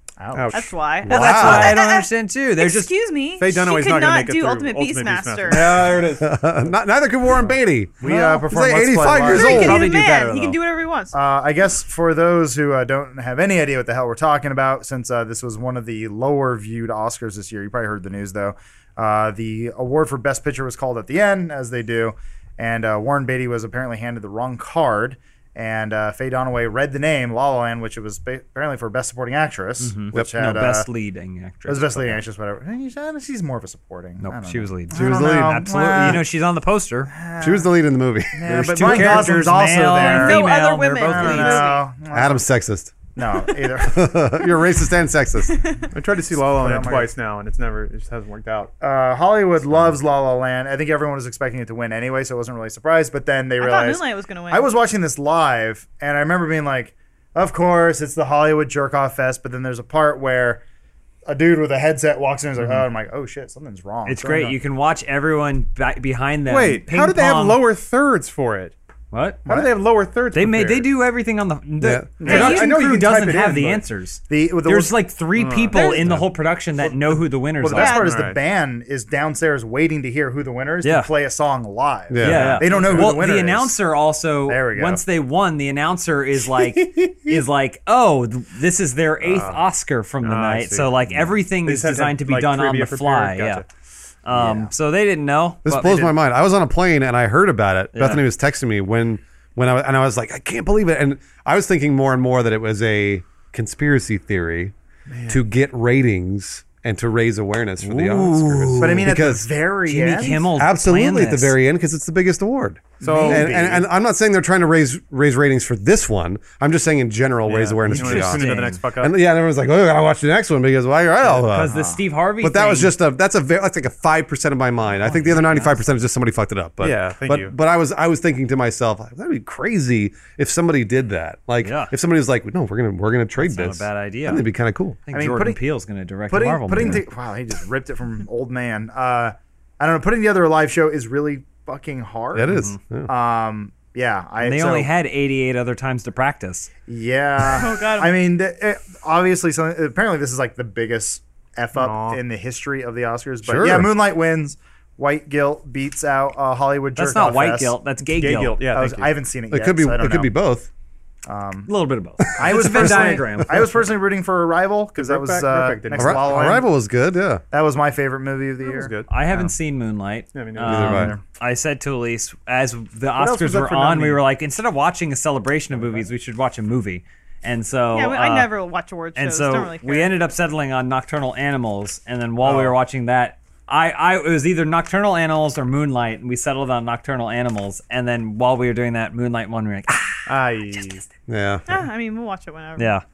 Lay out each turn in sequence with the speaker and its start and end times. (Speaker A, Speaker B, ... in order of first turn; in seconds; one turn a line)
Speaker A: 0.2-0.7
Speaker B: 0.3-0.7
Speaker C: 0.5-6.0
Speaker D: 1.1-1.8
Speaker E: 1.1-2.9
Speaker B: 3.4-6.3
Speaker A: 5.8-6.1
Speaker D: 6.0-9.9
Speaker A: 8.0-10.5
Speaker C: 9.3-11.1
Speaker E: 9.5-10.1
Speaker B: 9.8-10.1
Speaker A: 11.1-30.9
Speaker E: 29.8-32.2
Speaker A: 31.6-36.2
Speaker E: 34.2-37.1
Speaker D: 34.9-35.6
Speaker A: 37.1-37.7
Speaker D: 37.4-39.3
Speaker A: 38.3-40.4
Speaker E: 38.4-41.7
Speaker C: 39.9-41.9
Speaker A: 41.0-42.5
Speaker D: 42.1-43.0
Speaker A: 43.1-44.3
Speaker D: 43.8-45.6
Speaker C: 45.5-45.9
Speaker B: 45.9-48.7
Speaker A: 46.3-47.1
Speaker A: 48.8-60.6
Speaker C: 53.6-54.7
Speaker A: 61.3-64.6
Speaker E: 64.0-67.6
Speaker B: 66.5-68.7
Speaker E: 69.1-69.4
Speaker B: 69.4-70.9
Speaker E: 70.3-78.0
Speaker D: 71.8-72.1
Speaker B: 72.2-73.8
Speaker C: 72.2-72.7
Speaker A: 74.3-75.0
Speaker B: 75.3-76.0
Speaker C: 75.7-76.1
Speaker D: 76.0-76.3
Speaker A: 77.6-83.8
Speaker C: 77.7-78.1
Speaker B: 77.9-78.4
Speaker E: 80.8-81.1
Speaker D: 82.1-82.7
Speaker E: 82.2-93.6
Speaker B: 82.2-83.2
Speaker A: 84.5-85.0
Speaker A: 86.8-87.4
Speaker B: 89.2-89.6
Speaker B: 90.2-93.6
Speaker E: 94.2-96.1
Speaker A: 94.3-94.7
Speaker D: 95.6-104.7
Speaker E: 97.9-98.2
Speaker B: 105.1-105.4
Speaker D: 105.3-109.5
Speaker E: 107.8-109.2
Speaker A: 108.8-110.5
Speaker E: 109.9-111.5
Speaker D: 110.5-121.7
Speaker B: 113.0-113.5
Speaker A: 113.0-113.9
Speaker B: 117.5-119.1
Speaker E: 117.9-118.8
Speaker E: 121.4-122.9
Speaker A: 121.7-122.0
Speaker D: 122.4-135.0
Speaker E: 125.0-125.8
Speaker B: 126.8-127.5
Speaker E: 131.6-131.9
Speaker E: 133.4-134.5
Speaker E: 135.1-137.0
Speaker A: 135.1-135.6
Speaker A: 136.3-144.9
Speaker D: 142.3-143.1
Speaker E: 142.5-142.8
Speaker E: 144.4-146.7
Speaker A: 146.9-157.8
Speaker C: 147.5-148.1
Speaker B: 151.8-152.2
Speaker D: 153.4-153.9
Speaker E: 156.9-158.7
Speaker B: 158.1-159.1
Speaker A: 158.7-160.4
Speaker D: 159.5-160.7
Speaker A: 161.2-161.7
Speaker E: 161.7-163.8
Speaker A: 162.3-166.7
Speaker D: 162.4-163.4
Speaker B: 164.9-166.6
Speaker D: 165.9-167.4
Speaker A: 167.5-168.9
Speaker B: 168.6-169.5
Speaker E: 169.1-178.5
Speaker B: 170.3-171.0
Speaker D: 170.6-171.2
Speaker A: 170.8-171.2
Speaker A: 173.2-174.2
Speaker C: 177.9-180.1
Speaker E: 179.2-191.0
Speaker B: 182.4-182.7
Speaker B: 190.2-191.0
Speaker D: 191.3-191.6
Speaker C: 191.7-192.9
Speaker E: 192.8-193.0